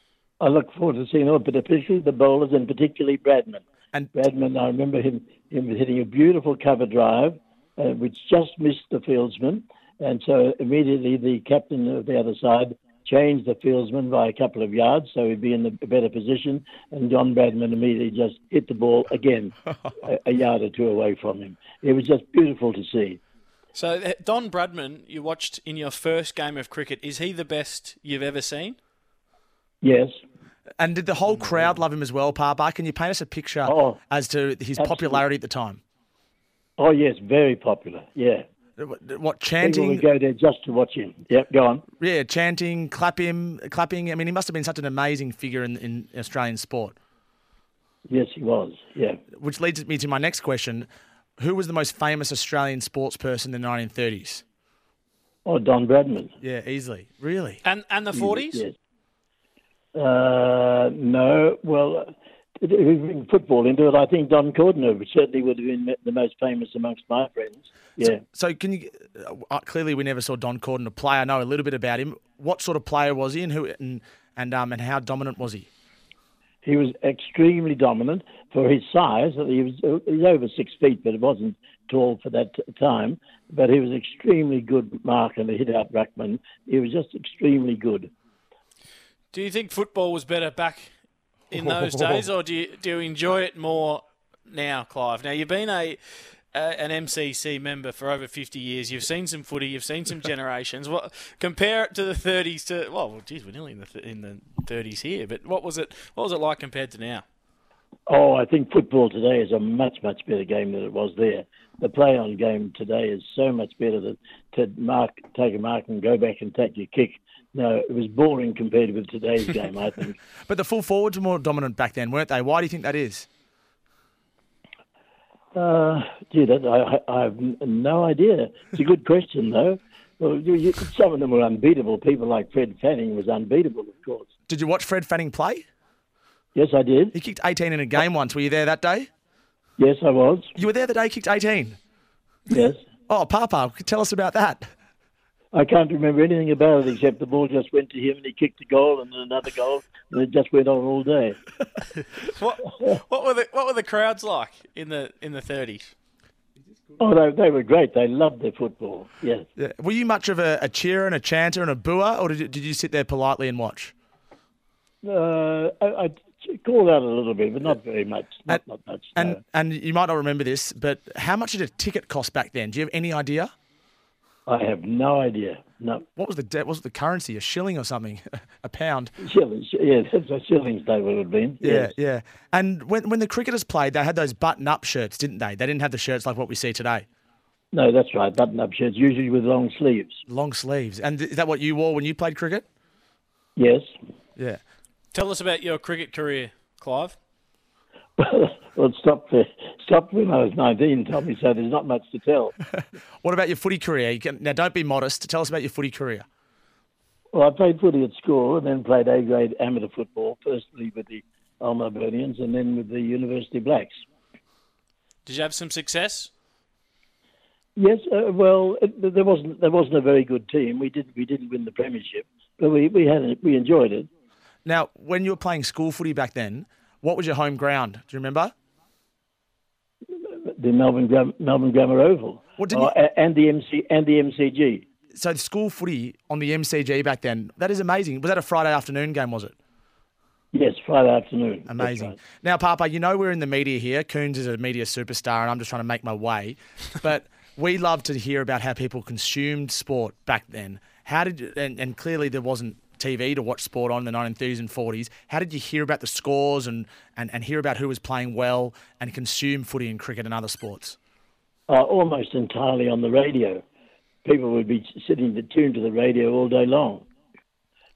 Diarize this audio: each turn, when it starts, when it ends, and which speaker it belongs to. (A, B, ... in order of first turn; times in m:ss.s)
0:00.4-0:23.2 A
0:23.7-0:28.8 B
0:29.8-0:30.1 A
0:30.8-0:35.8 C
0:33.6-0:34.0 A
0:34.8-0:35.2 A
0:36.8-0:38.4 A
0:38.8-0:40.0 C
0:39.6-0:41.8 A
0:42.0-0:47.0 C
0:48.1-0:49.2 A
0:49.4-0:50.9 C
0:51.4-0:54.4 C
0:55.4-0:56.3 A
0:56.4-0:57.6 C
0:57.6-0:58.6 B
0:58.1-0:58.8 A
0:59.9-1:08.2 A
1:08.0-1:15.7 C
1:16.6-1:28.1 A
1:29.3-1:30.9 B
1:31.5-1:47.2 B
1:31.9-1:32.2 C
1:48.1-2:00.2 A
2:00.5-2:03.3 C
2:05.5-2:14.3 A
2:14.5-2:15.6 C
2:16.5-2:17.1 A
2:17.1-2:19.1 C
2:19.8-2:20.5 A
2:20.6-2:21.8 C
2:22.5-2:22.8 A
2:23.1-2:24.7 C
2:25.5-2:31.4 A
2:32.2-2:35.9 B
2:37.0-2:39.5 A
2:39.6-2:43.9 C
2:45.0-2:49.4 A
2:49.1-2:53.5 C
2:54.4-2:56.0 A
2:56.2-2:59.1 C
2:59.2-3:01.9 A
3:01.6-3:07.0 C
3:07.7-3:10.2 A
3:10.3-3:12.6 C
3:13.6-3:13.8 A
3:15.1-3:17.2 B
3:18.2-3:22.5 A
3:23.2-3:26.2 C
3:27.3-3:33.9 A
3:35.2-3:36.3 B
3:37.8-3:44.1 A
3:44.6-3:48.5 C
3:50.2-3:54.8 A
3:52.6-3:52.9 C
3:55.1-3:59.5 C
4:00.5-4:02.2 A
4:01.7-4:21.0 C
4:21.7-4:23.6 A
4:24.2-4:27.0 A